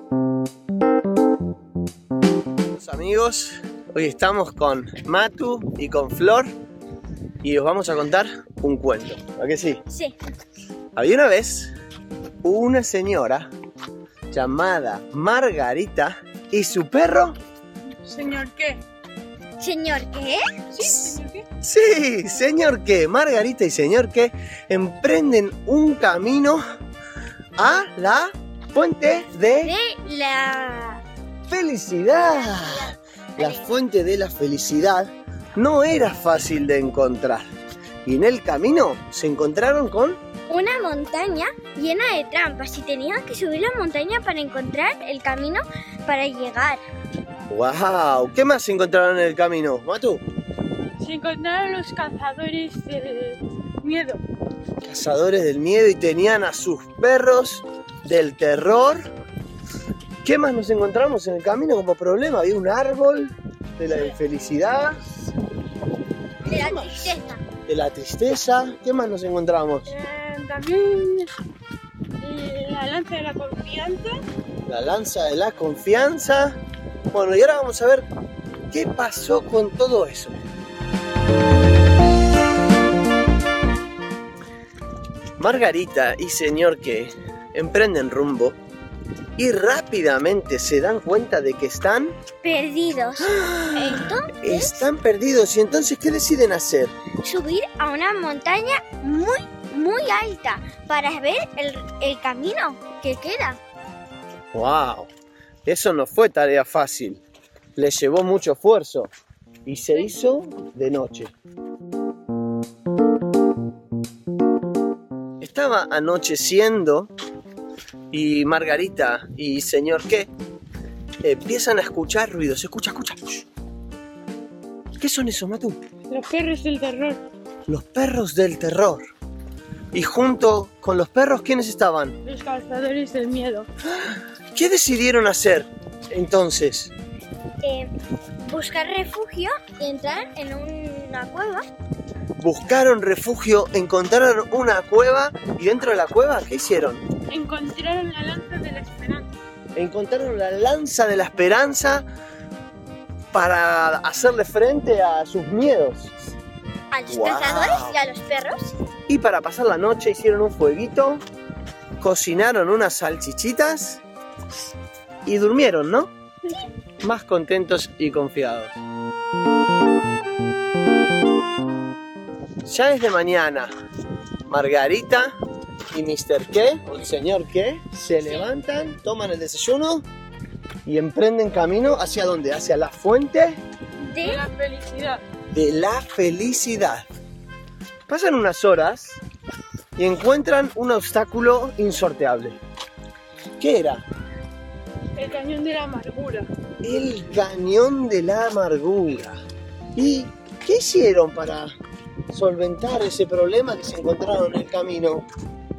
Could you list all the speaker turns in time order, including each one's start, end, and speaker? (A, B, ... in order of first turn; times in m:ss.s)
0:02.7-0:06.5 A
0:07.4-0:09.8 A
0:09.9-0:10.2 B
0:10.9-0:11.7 A
0:12.4-0:13.5 A
0:14.3-0:17.3 A
0:18.0-0:18.8 C
0:19.6-0:21.1 B
0:20.7-0:21.4 C
0:21.6-0:26.6 A
0:27.6-0:29.7 A
0:29.6-0:31.0 B
0:31.5-0:37.4 A
0:32.3-0:33.7 B
0:38.0-0:40.2 A
0:40.5-0:46.8 B
0:47.5-0:50.2 A
0:51.0-0:54.2 C
0:54.8-0:59.0 A
1:00.2-1:05.0 A
1:06.4-1:07.4 B
1:06.5-1:07.1 A
1:07.6-1:09.9 A
1:09.9-1:11.3 C
1:12.2-1:14.2 C
1:14.6-1:16.6 A
1:17.1-1:18.0 A
1:18.7-1:20.4 A
1:25.4-1:28.6 A
1:29.4-1:32.2 A
1:32.4-1:34.9 B
1:33.2-1:36.9 A
1:37.2-1:43.6 B
1:44.5-1:45.1 A
1:45.7-1:47.2 A
1:47.8-1:49.1 A
1:49.6-1:51.3 A
1:55.4-1:57.1 A
1:58.1-2:00.3 A
2:01.2-2:03.5 A
2:05.0-2:05.8 A
2:06.1-2:07.2 C
2:07.7-2:09.0 A
2:09.9-2:12.2 A
2:12.2-2:13.7 C
2:13.9-2:16.9 A
2:17.6-2:17.9 B
2:18.4-2:21.6 B
2:22.4-2:27.0 A
2:27.3-2:29.3 C
2:29.8-2:32.1 A
2:33.3-2:36.1 A
2:36.9-2:38.8 B
2:37.1-2:37.9 A
2:39.1-2:41.2 A
2:42.0-2:44.0 A
2:45.2-2:46.1 A
2:47.0-2:48.8 A
2:52.6-2:53.7 A
2:54.4-2:55.3 A
2:55.9-3:00.0 A
3:00.8-3:03.6 A
3:04.0-3:04.4 B
3:04.2-3:05.2 C
3:05.5-3:07.0 A
3:08.1-3:09.2 A
3:10.0-3:12.6 A
3:13.6-3:14.0 A
3:15.2-3:16.5 C
3:16.8-3:19.4 A
3:19.9-3:21.7 A
3:22.3-3:25.2 A